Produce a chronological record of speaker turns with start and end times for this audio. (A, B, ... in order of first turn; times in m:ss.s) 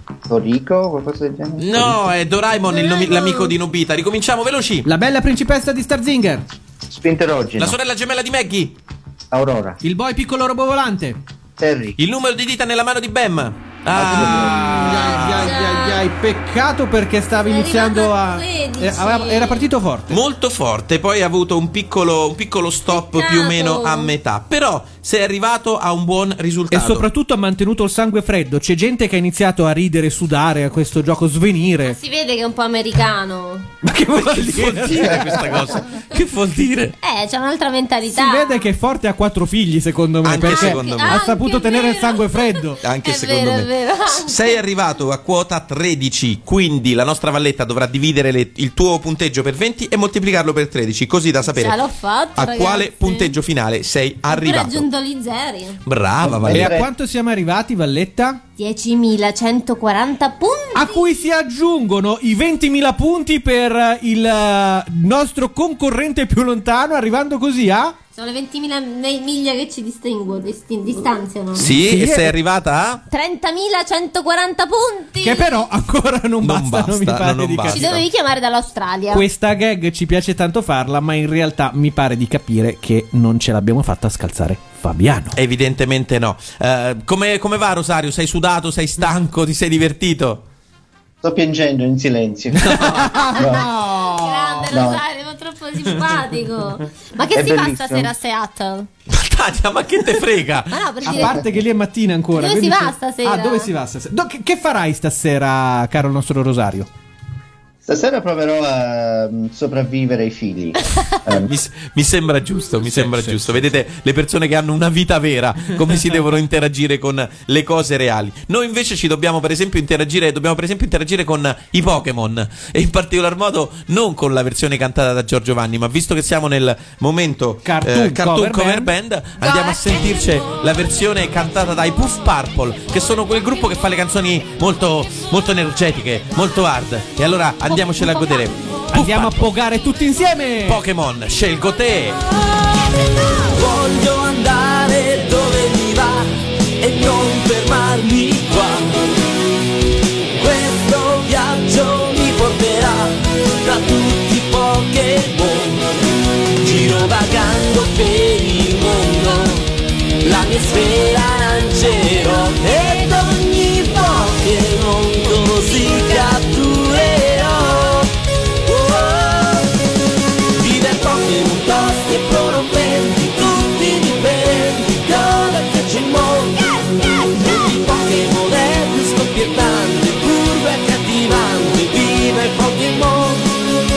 0:00.3-0:02.0 A
0:01.6-0:04.9 B
0:02.7-0:03.5 C
0:04.8-0:06.4 D
0:06.9-0:07.8 A
0:07.6-0:08.8 B
0:09.3-0:09.8 A
0:09.8-0:11.2 D
0:11.6-0:12.0 A
0:12.0-0:15.5 B
0:13.9-0:14.8 A
0:14.0-0:20.2 D
0:14.9-0:16.0 C
0:17.4-0:19.7 C
0:20.1-0:27.1 B
0:22.9-0:24.1 C
0:26.7-0:32.0 D
0:31.8-0:33.7 C
0:33.8-0:35.7 D
0:34.1-0:37.0 B
0:37.0-0:38.6 C
0:38.1-0:42.8 D
0:40.2-0:41.2 B
0:40.4-0:44.6 C
0:42.8-0:51.8 B
0:51.5-0:53.4 C
0:52.4-0:54.9 B
0:54.3-0:55.8 C
0:55.8-0:56.7 B
0:56.2-0:56.9 A
0:56.4-0:58.4 D
0:58.6-1:01.0 C
1:00.7-1:08.0 D
1:08.2-1:11.7 C
1:11.6-1:13.0 B
1:11.6-1:12.4 D
1:13.1-1:15.5 C
1:15.2-1:17.9 D
1:16.4-1:18.0 B
1:17.7-1:19.2 C
1:19.1-1:25.4 D
1:25.4-1:30.4 B
1:31.2-1:33.8 A
1:32.6-1:34.6 D
1:34.1-1:38.9 C
1:34.6-1:35.0 A
1:37.3-1:38.1 A
1:39.1-1:40.9 B
1:40.7-1:41.4 C
1:41.0-1:46.9 D
1:42.4-1:43.7 C
1:47.8-1:51.5 A
1:51.4-2:19.5 B
1:52.8-1:53.6 D
2:07.6-2:08.9 D
2:09.4-2:10.6 C
2:17.7-2:18.5 C
2:18.9-2:20.8 D
2:20.6-2:22.2 B
2:23.4-2:29.0 E
2:30.3-2:35.8 E
2:36.6-2:39.7 E
2:40.2-2:48.1 E
2:48.6-2:49.7 E
2:50.5-3:03.5 E